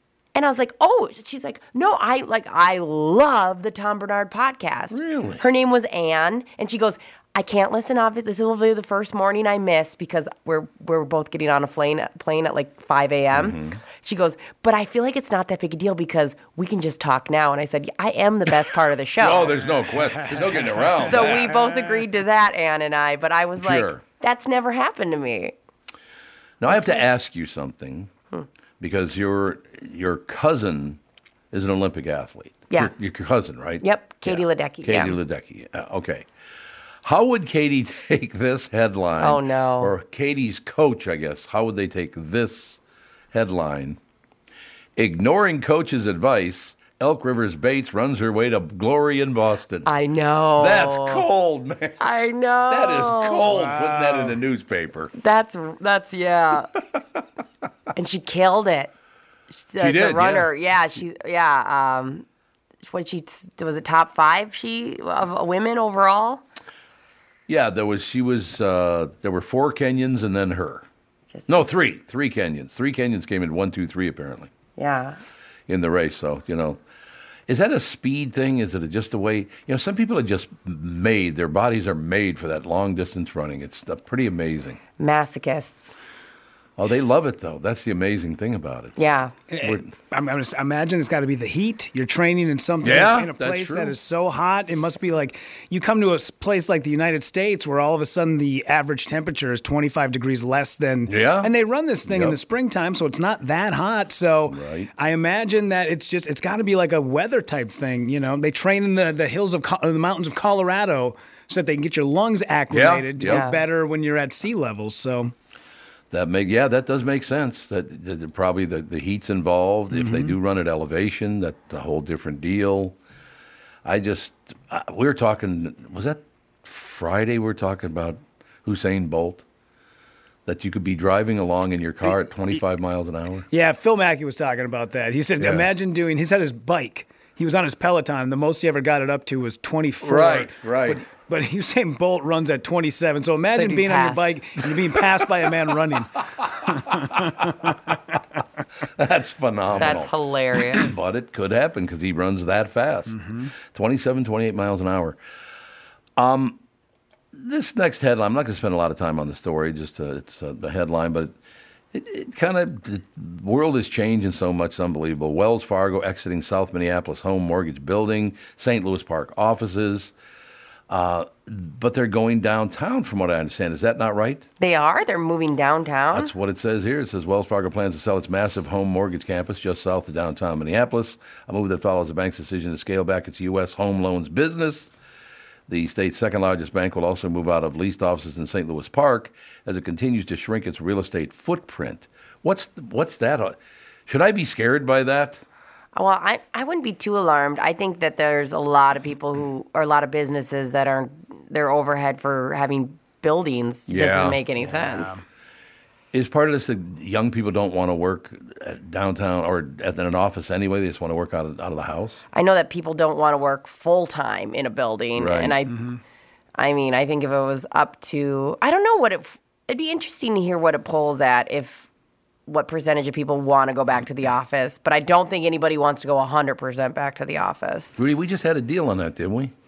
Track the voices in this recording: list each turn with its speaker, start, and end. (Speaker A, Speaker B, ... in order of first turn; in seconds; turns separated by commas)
Speaker A: 0.3-19.5, Speaker B: 4.9-5.4, Speaker B: 13.3-13.8, Speaker B: 19.2-21.5, Speaker C: 20.2-21.9, Speaker A: 21.0-25.5, Speaker B: 23.6-24.0, Speaker B: 26.6-28.1, Speaker A: 26.7-27.0, Speaker B: 28.8-31.0, Speaker B: 31.5-36.2, Speaker A: 33.8-35.2, Speaker B: 37.0-42.8, Speaker A: 39.2-39.9, Speaker B: 43.3-44.0, Speaker B: 45.0-49.9, Speaker A: 49.9-51.2, Speaker B: 50.6-52.0, Speaker A: 52.0-53.5, Speaker B: 52.7-55.1, Speaker C: 53.5-54.4, Speaker A: 55.2-56.7, Speaker A: 58.0-58.9, Speaker A: 59.5-62.2, Speaker B: 59.8-60.5, Speaker A: 62.9-66.4, Speaker B: 67.5-70.9, Speaker A: 71.3-71.6, Speaker B: 71.5-74.5, Speaker A: 74.8-75.2, Speaker B: 75.7-76.8, Speaker B: 77.5-84.8, Speaker A: 85.0-85.9, Speaker B: 86.8-89.0, Speaker A: 89.0-89.3, Speaker C: 89.5-115.3, Speaker B: 89.6-89.9, Speaker B: 92.8-94.0, Speaker B: 101.1-101.5, Speaker B: 102.1-102.4, Speaker B: 104.5-104.9, Speaker B: 112.7-113.5, Speaker A: 113.3-113.6, Speaker B: 116.1-123.0, Speaker C: 119.9-120.3, Speaker B: 123.8-129.4, Speaker B: 130.5-133.5, Speaker C: 133.5-147.7, Speaker B: 135.4-135.7, Speaker B: 140.0-141.0, Speaker A: 143.6-144.3, Speaker B: 149.0-155.2, Speaker A: 149.8-150.9, Speaker C: 153.1-153.5, Speaker B: 156.2-156.6, Speaker B: 157.3-161.3, Speaker B: 161.9-170.1, Speaker B: 170.9-174.5, Speaker A: 174.6-176.3, Speaker B: 176.1-184.9, Speaker B: 185.7-193.6, Speaker B: 194.1-195.4, Speaker A: 195.9-205.2, Speaker B: 203.9-204.4, Speaker C: 204.6-205.2, Speaker B: 206.1-212.2, Speaker A: 212.3-215.7, Speaker B: 215.2-215.6, Speaker C: 215.7-216.0, Speaker A: 216.6-221.9, Speaker A: 222.5-228.0, Speaker B: 228.0-229.5